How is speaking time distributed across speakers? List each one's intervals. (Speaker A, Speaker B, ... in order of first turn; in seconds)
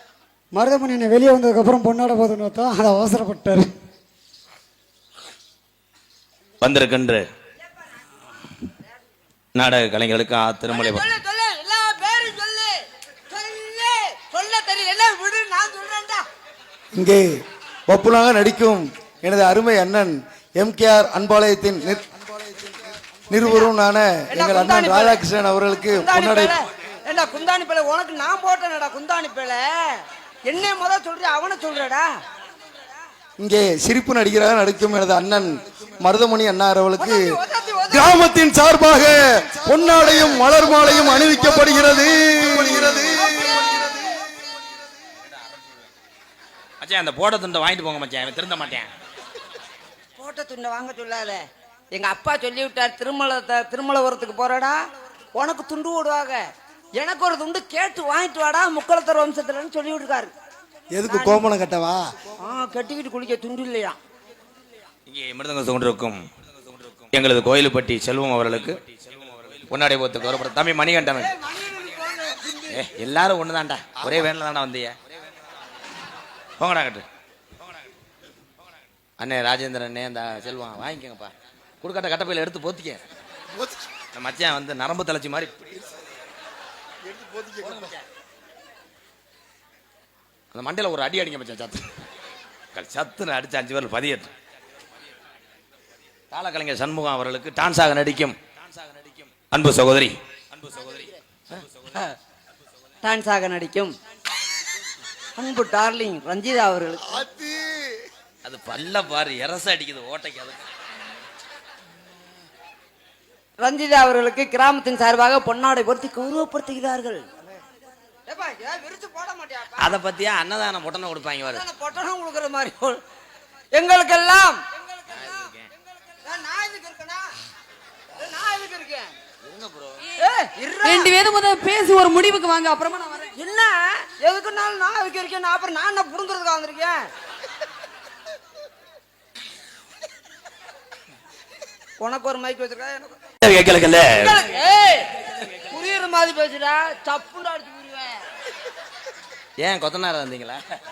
Speaker A: 0.5-3.7
Speaker B: 6.6-7.2, 9.5-11.0, 46.8-48.9, 65.0-66.2, 66.8-71.3, 72.7-75.0, 76.6-77.0, 79.2-83.0, 84.1-85.8, 87.6-88.0, 90.5-91.8, 92.7-94.3, 96.3-102.1, 108.4-110.6, 119.8-121.6, 125.2-125.7, 129.4-130.0, 143.4-144.4, 149.6-150.6
Speaker C: 10.7-12.8, 13.3-16.2, 24.3-25.2, 25.9-32.1, 37.0-38.1, 43.2-44.1, 50.2-54.8, 55.3-56.4, 57.0-60.3, 61.0-61.4, 62.4-64.0, 71.1-72.8, 103.0-103.9, 105.4-107.2, 113.6-117.2, 118.3-119.9, 121.5-123.0, 123.7-124.6, 126.2-127.3, 128.2-129.1, 130.2-131.2, 132.9-137.0, 142.0-143.2, 144.1-145.1, 145.7-148.2
Speaker D: 16.9-22.1, 23.3-26.5, 33.4-37.3, 37.9-43.9, 60.9-62.0, 87.1-87.9, 107.1-107.8
Speaker E: 130.8-133.0